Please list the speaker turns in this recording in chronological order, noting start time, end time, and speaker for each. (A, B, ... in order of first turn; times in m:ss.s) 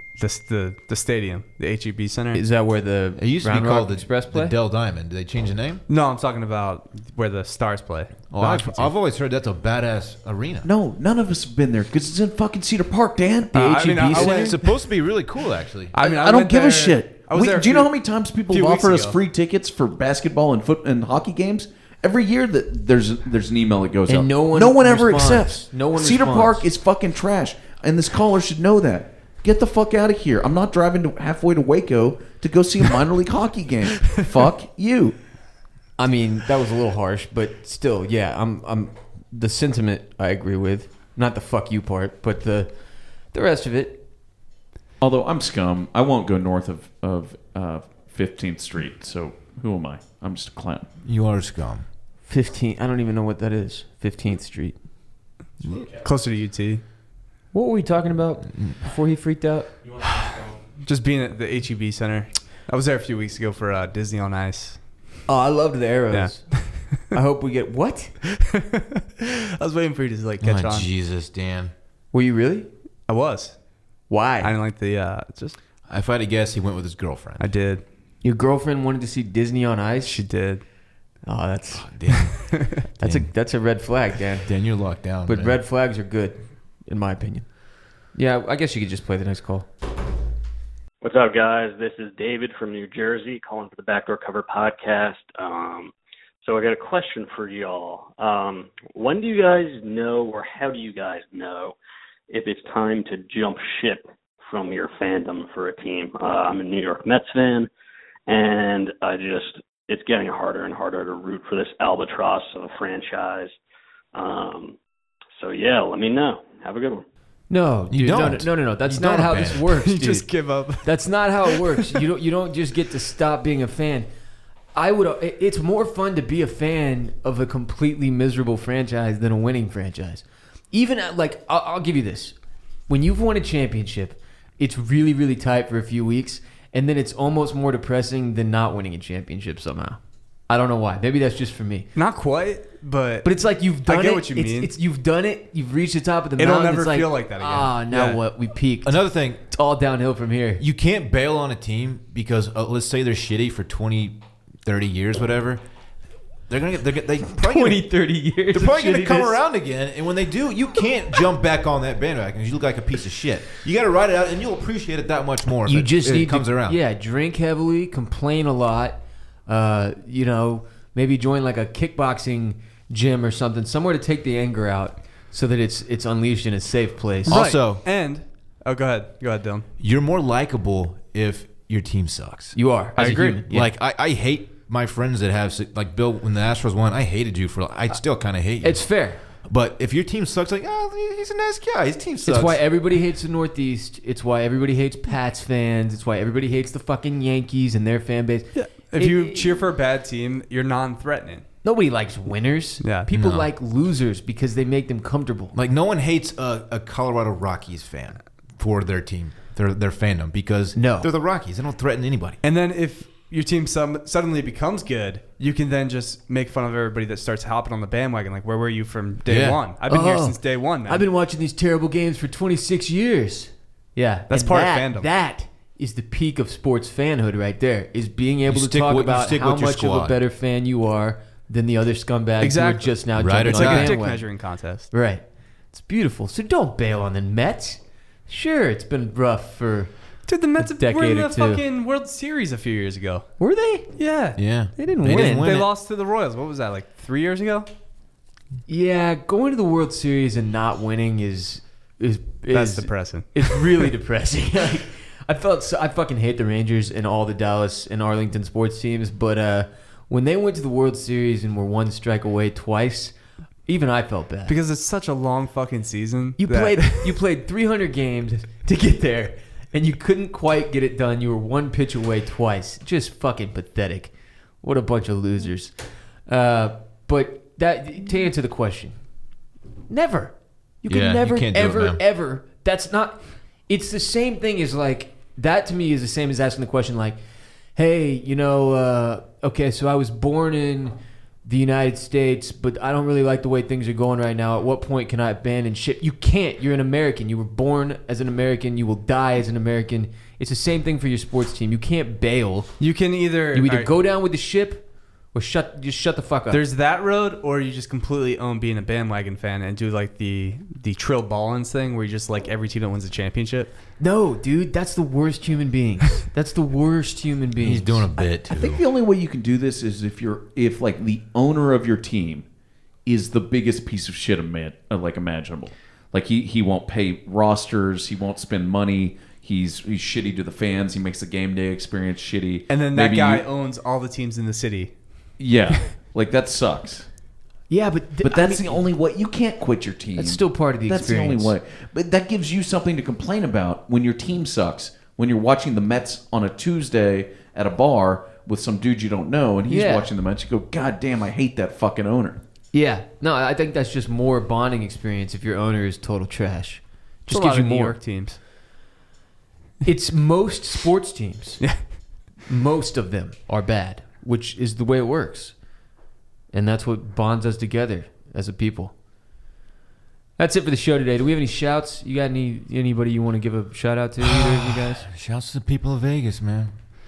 0:00.2-0:02.4 A
0:02.3-0:04.6 B
0:03.2-0:05.8 C
0:05.9-0:08.9 A
0:08.3-0:10.7 C
0:10.6-0:13.5 D
0:13.5-0:14.6 B
0:13.6-0:14.6 A
0:14.1-0:15.9 C
0:15.9-0:17.9 A
0:16.0-0:35.2 D
0:18.5-0:19.2 A
0:24.1-0:26.7 B
0:36.0-0:42.7 B
0:43.3-0:44.0 B
0:45.0-0:50.9 D
0:51.0-0:51.9 C
0:52.3-0:54.8 B
0:55.6-0:55.9 C
0:56.0-0:56.8 A
0:57.5-0:59.7 B
1:00.8-1:04.8 A
1:05.3-1:08.1 B
1:06.1-1:07.1 A
1:08.3-1:10.9 A
1:10.4-1:11.7 C
1:12.1-1:12.7 B
1:13.1-1:13.6 A
1:14.1-1:14.5 B
1:14.4-1:15.6 A
1:15.9-1:17.5 C
1:17.4-1:17.8 A
1:18.2-1:20.2 B
1:20.0-1:20.6 A
1:21.3-1:22.2 B
1:21.7-1:23.3 C
1:22.8-1:24.5 B
1:24.4-1:25.6 C
1:25.2-1:27.5 B
1:28.1-1:29.7 B
1:31.0-1:41.8 E
1:42.3-1:47.7 E
1:48.3-1:53.6 E
1:54.1-1:54.8 E
1:55.4-1:57.0 E
1:57.5-2:00.3 B
1:57.9-1:59.6 C
1:59.7-2:02.0 A
2:00.8-2:04.1 B
2:04.7-2:12.4 B
2:12.9-2:21.9 B
2:22.0-2:23.3 A
2:23.2-2:30.6 B
2:23.8-2:24.7 A
2:26.4-2:28.2 A
2:28.8-2:29.4 C
2:30.6-2:35.6 C
2:36.5-2:38.0 C
2:37.4-2:39.4 B
2:38.5-2:46.8 C
2:45.7-2:57.4 B
2:57.2-2:57.8 C
2:57.3-2:59.7 A
2:59.8-3:02.6 C
3:02.6-3:03.7 B
3:03.0-3:03.4 A
3:03.3-3:12.6 C
3:08.6-3:09.2 B
3:12.2-3:19.6 B
3:18.6-3:21.4 A
3:21.6-3:25.6 B
3:22.8-3:23.1 A
3:23.1-3:23.5 C
3:25.5-3:32.4 C
3:30.8-3:31.1 B
3:32.4-3:41.0 A
3:39.3-3:39.6 C
3:39.9-3:54.3 B
3:44.3-3:45.1 A
3:48.5-3:50.2 C
3:52.4-3:54.9 A
3:53.2-3:54.0 C
3:54.9-3:59.9 B
4:00.3-4:03.3 A
4:00.6-4:01.6 B
4:03.4-4:03.9 B
4:04.0-4:04.4 A
4:04.4-4:05.7 C
4:04.8-4:05.7 B
4:05.0-4:07.7 A
4:08.7-4:23.1 B
4:12.5-4:13.9 A
4:23.7-4:24.6 B
4:24.5-4:27.2 A
4:26.4-4:35.7 B
4:36.3-4:39.0 B
4:39.9-4:47.2 B
4:40.9-4:42.0 C
4:47.8-5:02.7 B
5:02.8-5:03.9 A
5:03.5-5:06.6 B
5:06.5-5:13.7 A
5:14.0-5:18.2 B
5:17.6-5:18.8 C
5:18.5-5:22.4 D
5:23.0-5:33.4 D
5:32.7-5:35.0 A
5:35.4-5:37.1 D
5:37.7-5:38.8 B
5:38.2-5:52.4 D
5:40.1-5:41.6 B
5:49.7-5:50.1 B
5:52.7-5:58.0 B
5:57.3-5:58.4 A
5:59.8-6:01.9 B
6:02.4-6:05.6 B
6:06.5-6:08.9 B
6:10.4-6:15.1 B
6:14.2-6:16.7 C